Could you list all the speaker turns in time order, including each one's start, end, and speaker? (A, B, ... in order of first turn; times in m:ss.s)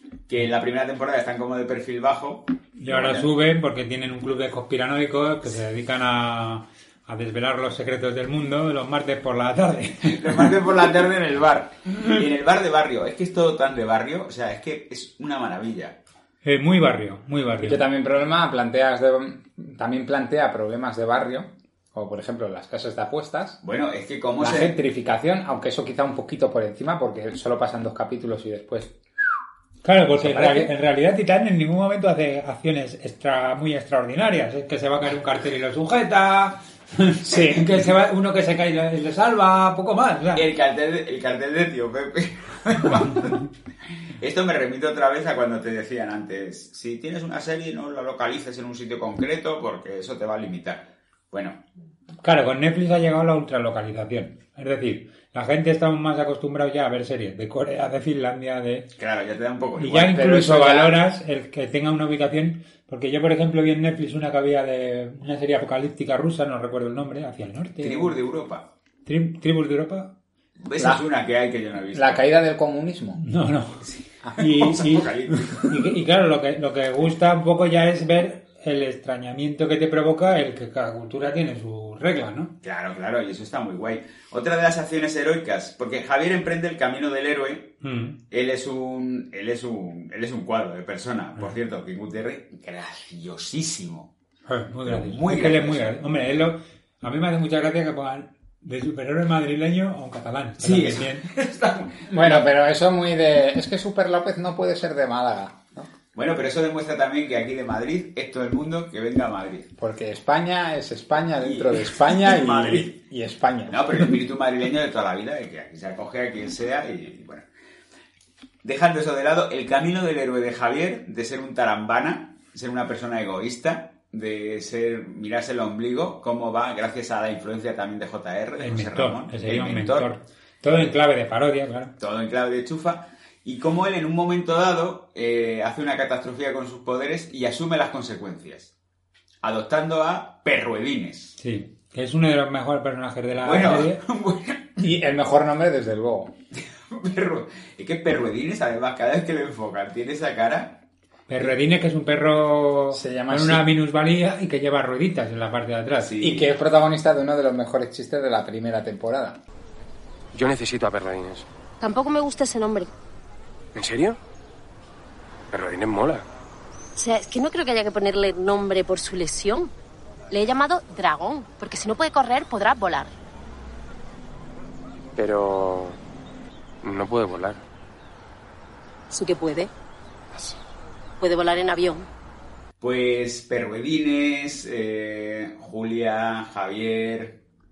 0:00.3-0:03.3 A
0:02.8-0:10.4 B
0:10.0-0:16.0 A
0:16.4-0:17.8 B
0:17.6-0:23.6 C
0:23.6-0:24.8 A
0:24.4-0:29.0 C
0:29.8-0:40.4 B
0:30.2-0:30.7 C
0:37.2-0:37.7 C
0:40.4-0:43.4 A
0:44.2-0:51.6 A
0:52.2-0:58.9 B
0:59.0-1:00.7 A
0:59.8-1:08.2 B
1:00.1-1:00.9 C
1:07.8-1:08.6 A
1:09.1-1:10.1 B
1:10.6-1:12.2 A
1:10.8-1:11.0 C
1:11.9-1:13.2 C
1:13.2-1:22.5 B
1:13.8-1:15.7 A
1:22.6-1:27.8 A
1:27.8-1:28.2 B
1:28.3-1:34.1 A
1:34.5-1:41.2 B
1:34.8-1:36.0 A
1:40.6-1:42.4 A
1:42.1-1:45.9 C
1:46.1-1:49.7 A
1:49.8-1:54.1 C
1:51.4-1:53.0 A
1:53.7-1:57.5 A
1:58.6-2:10.1 A
2:08.6-2:11.9 B
2:12.0-2:18.7 A
2:19.4-2:21.4 A
2:21.4-2:24.0 B
2:23.4-2:24.8 A
2:24.8-2:26.3 C
2:26.9-2:30.8 A
2:31.3-2:36.1 B
2:32.9-2:33.7 C
2:36.0-2:36.5 A
2:36.2-2:39.4 C
2:40.3-2:41.5 D
2:41.8-2:42.9 E
2:43.8-2:44.2 D
2:45.5-2:46.2 D
2:47.0-2:49.7 E
2:50.3-2:53.1 E
2:55.2-2:56.0 D
2:56.8-2:57.6 D
2:59.1-2:59.7 E
3:01.2-3:02.1 E
3:02.8-3:07.4 A